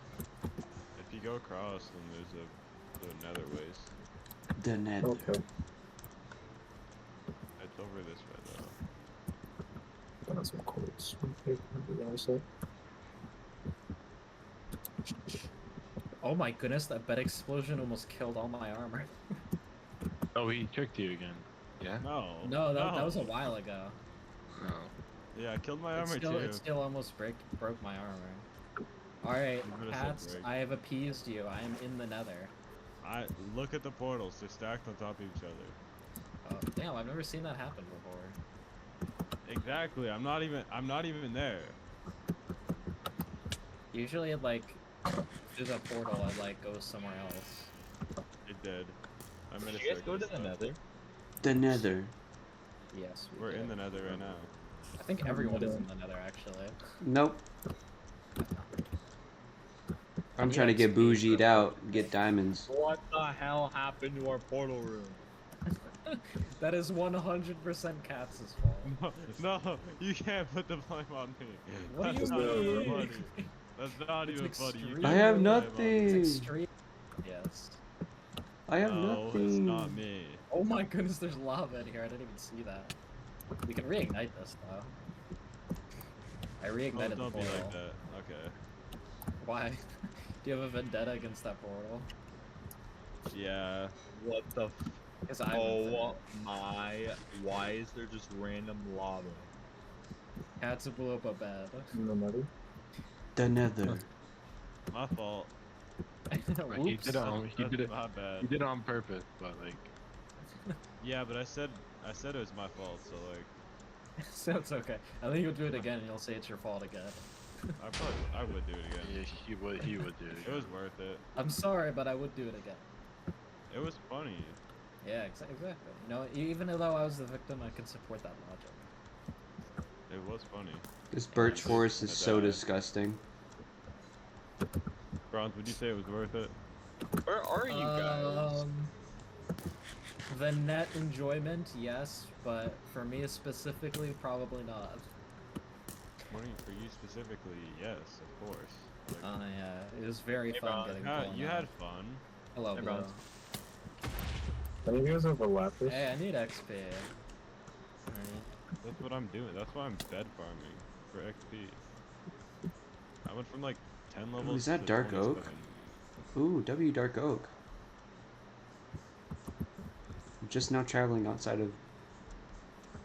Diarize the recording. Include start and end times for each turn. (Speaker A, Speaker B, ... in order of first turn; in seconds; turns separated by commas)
Speaker A: 1.0-3.9, Speaker B: 4.6-5.3, Speaker C: 5.0-5.4, Speaker A: 7.6-8.8, Speaker C: 10.3-12.4, Speaker D: 16.2-19.1, Speaker E: 20.4-22.1, Speaker A: 22.0-23.4, Speaker D: 22.4-24.0, Speaker E: 24.6-24.9, Speaker A: 25.4-26.6, Speaker D: 26.0-28.5, Speaker D: 29.2-32.5, Speaker A: 29.6-30.5, Speaker A: 33.0-35.8, Speaker D: 36.5-38.4, Speaker A: 39.5-41.8, Speaker D: 43.9-44.8, Speaker D: 45.5-47.7, Speaker A: 48.5-49.0, Speaker A: 49.5-50.7, Speaker F: 49.6-50.8, Speaker B: 51.4-52.1, Speaker D: 52.9-53.8, Speaker A: 53.4-54.5, Speaker D: 55.0-56.8, Speaker C: 55.2-55.9, Speaker B: 57.0-57.4, Speaker D: 58.4-58.7, Speaker B: 60.4-62.7, Speaker D: 60.4-62.1, Speaker F: 62.7-65.2, Speaker D: 65.7-69.0, Speaker A: 68.8-76.2, Speaker D: 71.9-73.5, Speaker C: 72.0-73.0, Speaker D: 74.2-76.7, Speaker B: 75.0-76.5, Speaker D: 77.2-77.8, Speaker B: 78.7-80.0, Speaker A: 78.8-80.4, Speaker D: 80.5-82.9, Speaker D: 83.6-84.9, Speaker D: 86.6-87.8, Speaker A: 86.9-88.5, Speaker D: 89.4-89.8, Speaker D: 90.4-92.1, Speaker A: 93.3-93.9, Speaker F: 94.1-99.5, Speaker D: 95.2-96.2, Speaker D: 100.6-102.0, Speaker C: 101.9-102.5, Speaker B: 103.3-104.1, Speaker A: 104.9-105.5, Speaker D: 106.3-107.2, Speaker E: 106.7-109.9, Speaker A: 107.2-108.5, Speaker A: 111.0-113.5, Speaker D: 114.2-117.2, Speaker A: 117.8-119.3, Speaker E: 119.0-120.7, Speaker D: 119.8-120.1, Speaker A: 120.4-121.2, Speaker D: 121.3-122.8, Speaker A: 123.7-124.6, Speaker D: 125.0-128.8, Speaker A: 130.1-130.8, Speaker B: 131.1-133.2, Speaker D: 131.3-131.8, Speaker A: 131.4-132.6, Speaker A: 135.3-136.6, Speaker F: 137.3-138.7, Speaker D: 137.7-138.9, Speaker D: 140.3-145.1, Speaker A: 146.3-149.3, Speaker D: 149.2-151.7, Speaker F: 150.5-151.1, Speaker A: 151.0-152.2, Speaker D: 152.6-153.2, Speaker F: 152.8-153.1, Speaker C: 154.8-156.1, Speaker D: 155.8-157.1, Speaker D: 158.1-158.5, Speaker A: 158.8-161.8, Speaker A: 163.2-165.7, Speaker B: 164.4-165.5, Speaker B: 166.3-167.5, Speaker B: 170.4-171.8